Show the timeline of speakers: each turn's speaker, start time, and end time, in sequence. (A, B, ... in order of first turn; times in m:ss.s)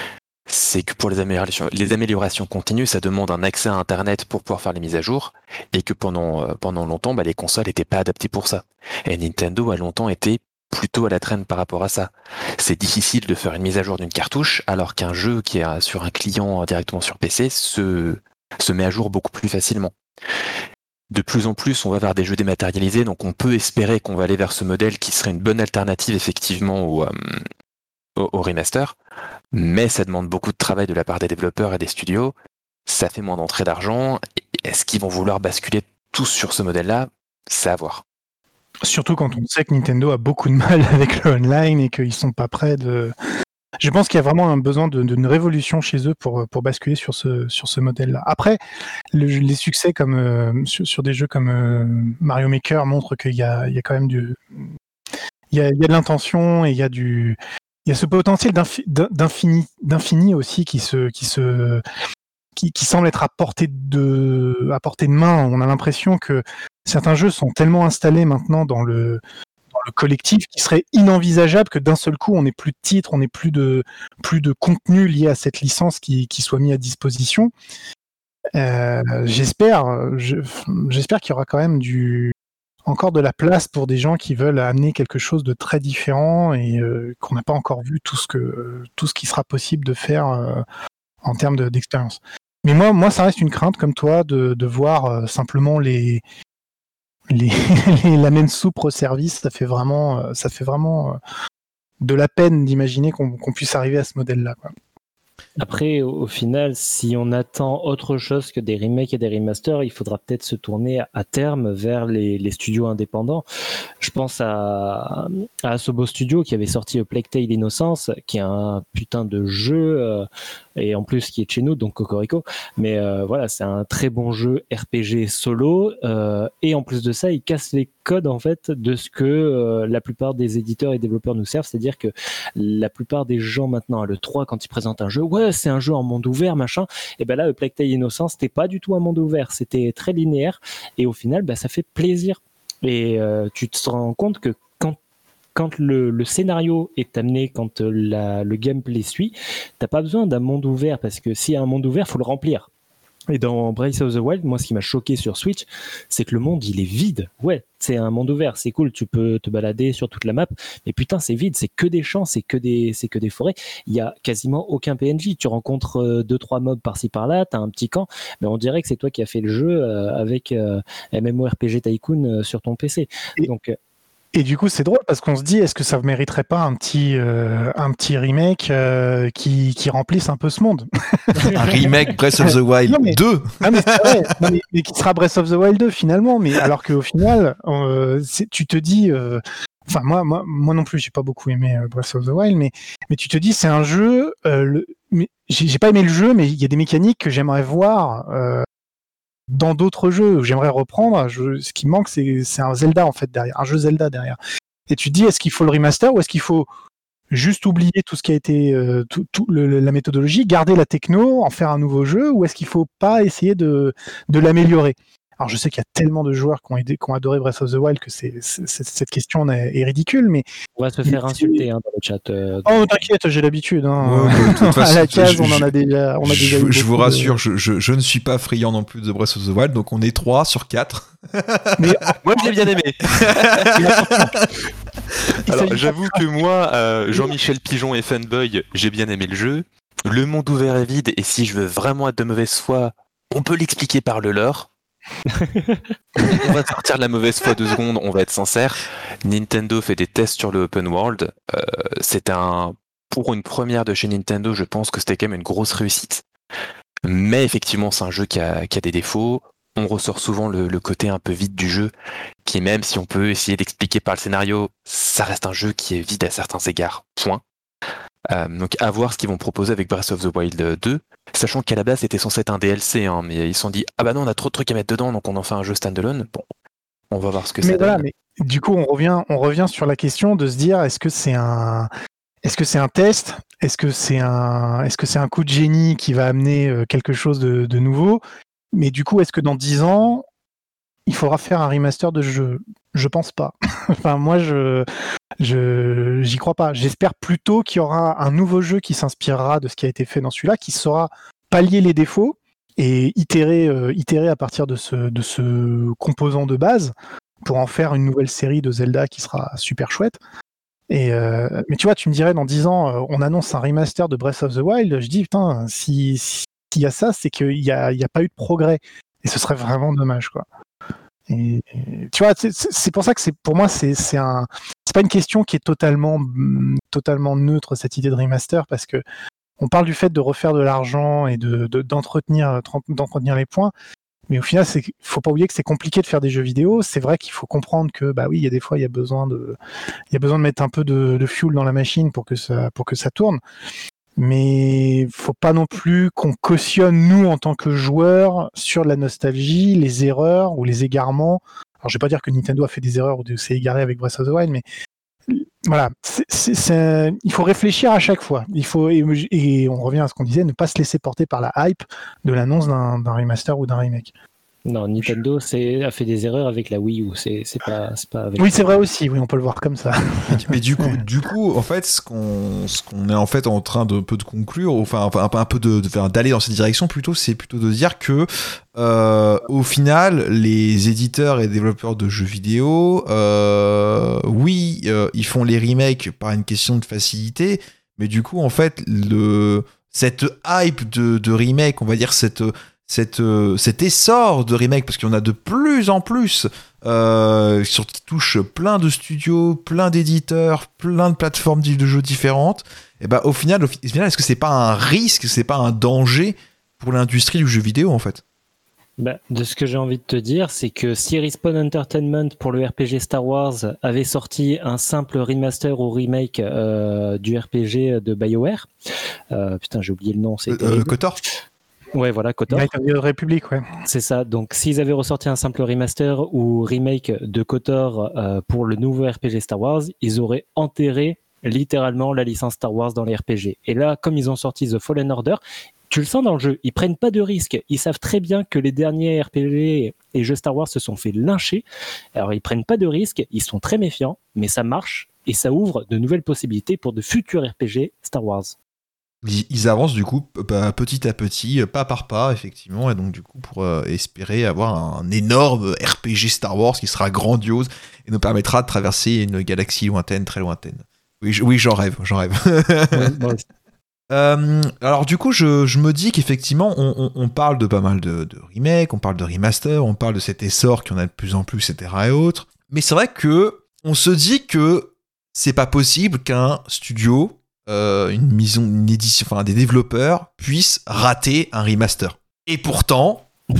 0:00.5-0:19.9 A
0:21.1-0:27.4 A
0:28.2-0:28.9 A
0:29.5-0:32.3 A
0:32.9-0:38.0 A
0:38.8-0:43.1 B
0:43.8-0:48.6 B
0:49.1-0:54.6 B
0:55.5-1:01.8 B
1:02.6-1:09.2 B
1:09.7-1:17.5 B
1:18.5-1:22.3 B
1:22.8-1:30.6 B
1:31.2-1:36.2 B
1:37.3-1:41.2 B
1:42.0-1:44.7 B
1:45.6-1:53.4 C
1:54.0-2:25.0 C
2:25.5-2:32.7 C
2:33.3-2:53.7 C
2:54.3-3:18.7 B
3:01.5-3:04.4 D
3:19.5-3:24.4 B
3:24.9-3:26.7 B
3:27.3-3:40.4 B
3:40.8-3:43.0 C
3:41.0-3:41.6 B
3:42.6-3:47.4 B
3:44.0-3:45.7 D
3:46.2-3:52.1 D
3:51.8-3:52.7 B
3:52.2-3:53.9 A
3:53.5-3:54.4 D
3:53.7-3:54.5 B
3:55.4-3:56.2 B
3:55.5-4:04.7 A
4:05.4-4:05.8 C
4:06.2-4:16.2 A
4:17.0-4:21.9 A
4:22.4-4:27.4 A
4:28.3-4:36.4 A
4:37.1-4:38.0 A
4:37.6-4:41.9 B
4:42.4-4:48.2 B
4:48.7-4:50.2 B
4:51.1-4:54.8 B
4:55.4-5:06.9 B
5:07.4-5:10.2 B
5:10.9-5:20.4 B
5:21.3-5:29.0 B
5:29.6-5:33.7 B
5:34.3-5:39.6 B
5:40.1-5:43.4 B
5:44.2-5:54.6 B
5:55.3-6:04.1 B
6:04.7-6:08.6 C
6:08.4-6:11.0 B
6:10.4-6:48.2 D
6:49.0-6:58.7 C
6:59.3-7:01.0 C
7:00.5-7:01.2 D
7:01.9-7:02.7 C
7:02.5-7:03.7 B
7:03.8-7:21.6 C
7:22.1-7:28.5 C
7:29.2-7:43.1 D
7:42.9-7:43.4 C
7:44.1-8:03.3 D